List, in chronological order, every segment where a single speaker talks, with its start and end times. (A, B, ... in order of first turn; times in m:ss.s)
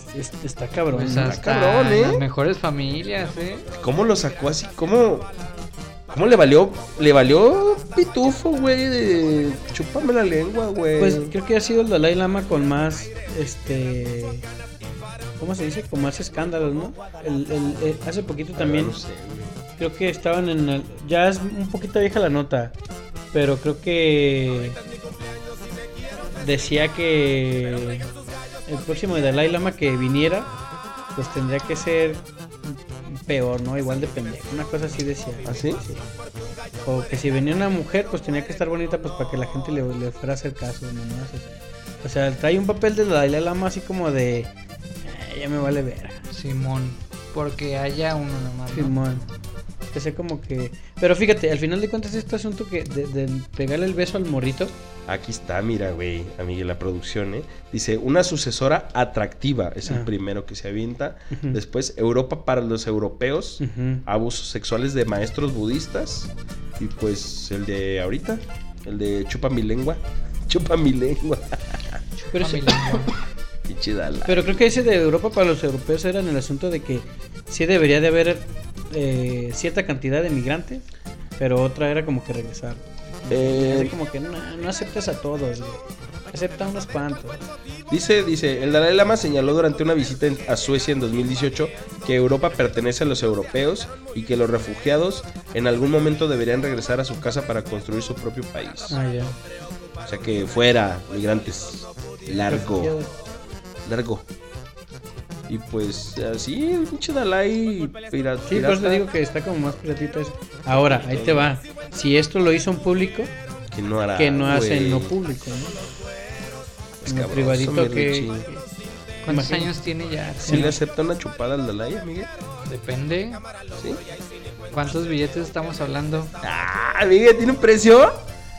0:00.1-0:01.4 A
0:00.9-0:03.7 B
0:01.1-0:02.2 C
0:03.7-0:05.3 C
0:06.1-0:11.3 C
0:11.0-0:14.4 A
0:15.4-0:19.0 A
0:18.6-0:19.5 C
0:19.8-0:22.7 A
0:23.3-0:24.8 A
0:26.4-0:28.1 A
0:28.7-0:30.5 A
0:31.2-0:36.0 A
0:35.4-0:35.8 C
0:36.8-0:44.5 A
0:45.0-0:46.2 A
0:46.3-0:48.9 B
0:48.7-0:49.2 A
0:49.9-0:54.7 A
0:55.1-1:12.0 C
1:01.3-1:01.6 A
1:03.6-1:04.0 A
1:12.3-1:13.1 A
1:12.3-1:13.1 B
1:13.6-1:14.6 C
1:14.2-1:20.8 A
1:21.4-1:27.5 A
1:23.3-1:24.0 C
1:27.9-1:39.0 C
1:38.9-1:39.4 A
1:40.0-1:42.9 C
1:42.5-1:43.1 A
1:43.8-1:44.2 C
1:45.5-1:49.0 C
1:48.5-1:53.3 A
1:50.9-1:51.5 C
1:53.7-1:55.1 C
1:54.2-1:55.8 A
1:57.0-1:58.4 C
1:57.0-1:58.6 A
1:59.2-2:00.8 B
1:59.3-1:59.7 A
2:00.4-2:02.3 C
2:00.4-2:00.7 A
2:02.6-2:03.4 B
2:03.7-2:04.0 C
2:04.7-2:06.3 B
2:06.4-2:08.2 C